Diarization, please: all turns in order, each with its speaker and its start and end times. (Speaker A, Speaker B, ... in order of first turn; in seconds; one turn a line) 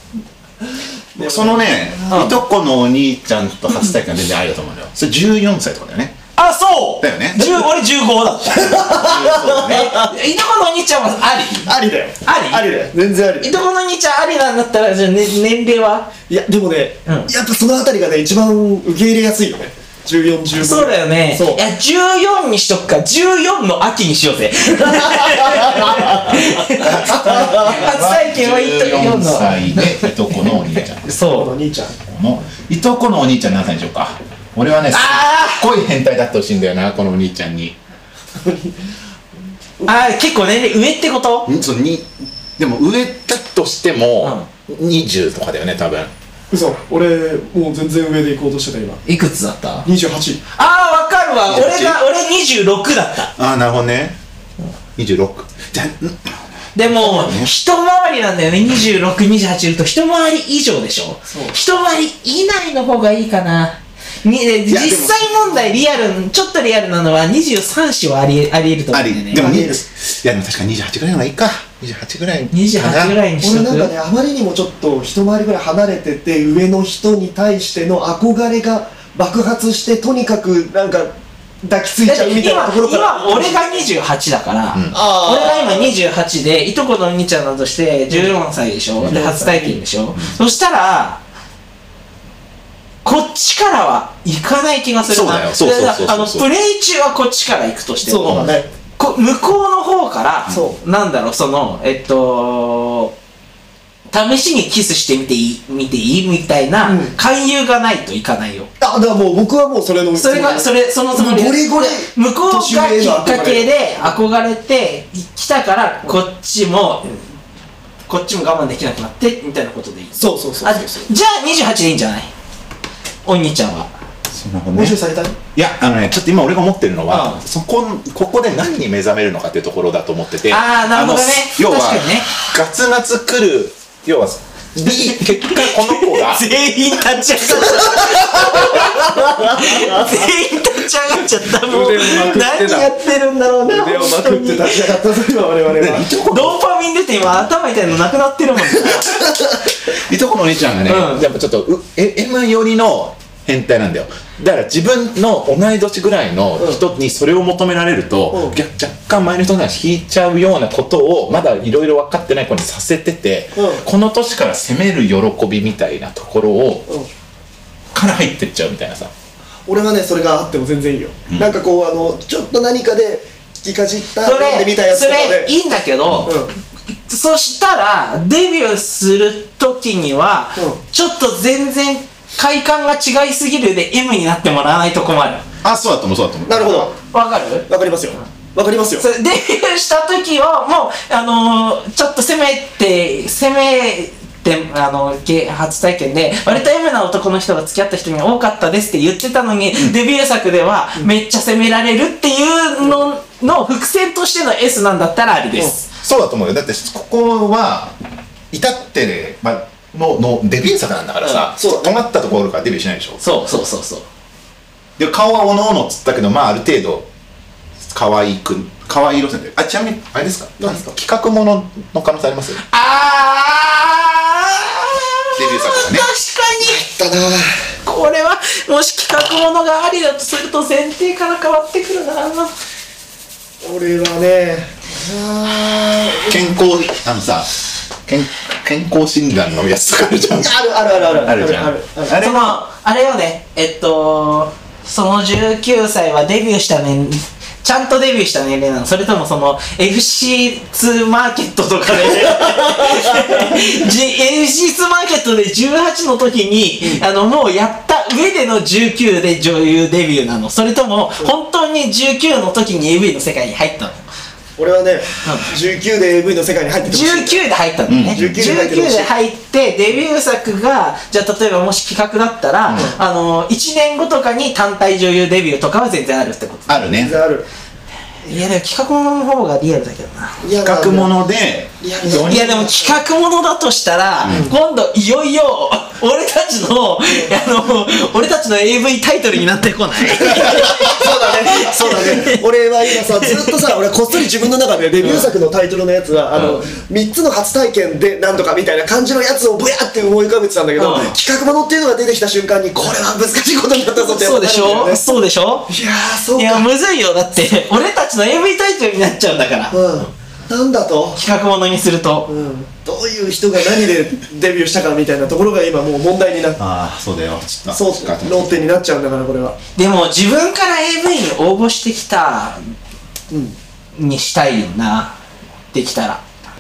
Speaker A: 1.1-1.8
Speaker B: 1.1-6.2
Speaker C: 2.1-2.4
Speaker C: 6.3-11.7
Speaker B: 7.0-7.7
Speaker B: 8.6-10.0
Speaker A: 8.6-10.1
Speaker A: 11.7-13.6
Speaker C: 12.2-12.7
Speaker C: 13.4-16.1
Speaker A: 16.3-21.6
Speaker C: 20.6-30.1
Speaker A: 24.8-27.8
Speaker B: 26.8-31.1
Speaker C: 31.0-31.5
Speaker A: 31.2-32.0
Speaker B: 32.0-37.8
Speaker C: 34.9-35.6
Speaker A: 38.4-38.8
Speaker C: 39.8-41.5
Speaker B: 41.5-46.1
Speaker C: 44.2-44.5
Speaker A: 46.5-49.0
Speaker C: 49.0-49.9
Speaker A: 49.8-50.4
Speaker C: 50.5-53.3
Speaker B: 51.5-52.0
Speaker B: 53.4-54.2
Speaker B: 55.0-57.5
Speaker C: 56.7-69.5
Speaker A: 61.3-61.5
Speaker B: 64.7-65.7
Speaker B: 68.9-73.2
Speaker A: 69.3-69.8
Speaker C: 72.5-73.9
Speaker A: 73.4-83.8
Speaker C: 82.0-91.2
Speaker B: 84.7-85.0
Speaker A: 84.9-85.9
Speaker A: 89.1-89.8
Speaker C: 93.0-103.1
Speaker B: 95.0-96.5
Speaker A: 98.0-98.7
Speaker B: 98.2-98.5
Speaker A: 100.5-100.8
Speaker C: 104.1-108.7
Speaker A: 106.8-107.1
Speaker A: 108.8-114.1
Speaker C: 110.1-117.1
Speaker C: 118.1-122.3
Speaker A: 120.2-121.1
Speaker C: 123.2-123.9
Speaker B: 124.3-125.0
Speaker A: 124.7-125.4
Speaker B: 125.5-136.5
Speaker C: 127.1-127.4
Speaker C: 130.5-132.3
Speaker C: 134.9-144.9
Speaker A: 137.8-140.3
Speaker A: 141.5-143.0
Speaker A: 143.5-146.1
Speaker B: 145.7-146.6
Speaker C: 146.2-149.2
Speaker B: 149.8-166.9
Speaker C: 150.8-151.2
Speaker A: 158.3-158.6
Speaker A: 163.5-163.8
Speaker B: 167.9-169.1
Speaker A: 169.7-175.5
Speaker C: 174.2-176.4
Speaker A: 176.2-176.5
Speaker C: 177.1-185.4
Speaker B: 185.6-186.9
Speaker A: 186.5-186.9
Speaker C: 187.1-187.7
Speaker A: 187.7-189.0
Speaker C: 189.0-205.9
Speaker B: 206.0-207.9
Speaker B: 208.5-213.2
Speaker A: 211.6-211.9
Speaker C: 213.2-214.0
Speaker B: 215.0-217.1
Speaker B: 217.8-222.6
Speaker A: 220.6-220.9
Speaker C: 222.6-226.8
Speaker B: 225.3-226.1
Speaker A: 226.6-227.6
Speaker C: 227.8-232.5
Speaker A: 233.6-236.5
Speaker B: 236.2-242.6
Speaker A: 240.4-242.2
Speaker C: 242.2-264.0
Speaker A: 252.4-253.8
Speaker A: 264.6-267.4
Speaker C: 266.9-276.8
Speaker B: 267.9-268.4
Speaker A: 268.1-269.1
Speaker B: 272.6-273.0
Speaker A: 272.7-273.0
Speaker B: 276.7-277.1
Speaker A: 276.9-277.5
Speaker C: 278.2-280.4
Speaker A: 280.4-281.1
Speaker B: 280.6-282.6
Speaker A: 281.8-283.0
Speaker C: 282.2-292.4
Speaker B: 284.2-284.5
Speaker A: 284.3-284.5
Speaker A: 290.3-305.0
Speaker B: 290.5-290.8
Speaker C: 292.9-293.7
Speaker C: 295.0-295.3
Speaker C: 300.8-301.1
Speaker C: 304.0-305.7
Speaker A: 305.7-306.7
Speaker C: 306.3-309.8
Speaker A: 309.7-311.2
Speaker C: 311.1-312.3
Speaker A: 312.3-316.6
Speaker B: 316.6-318.6
Speaker A: 317.7-319.6
Speaker C: 319.8-322.7
Speaker A: 323.3-323.6
Speaker C: 323.9-325.1
Speaker C: 325.7-326.2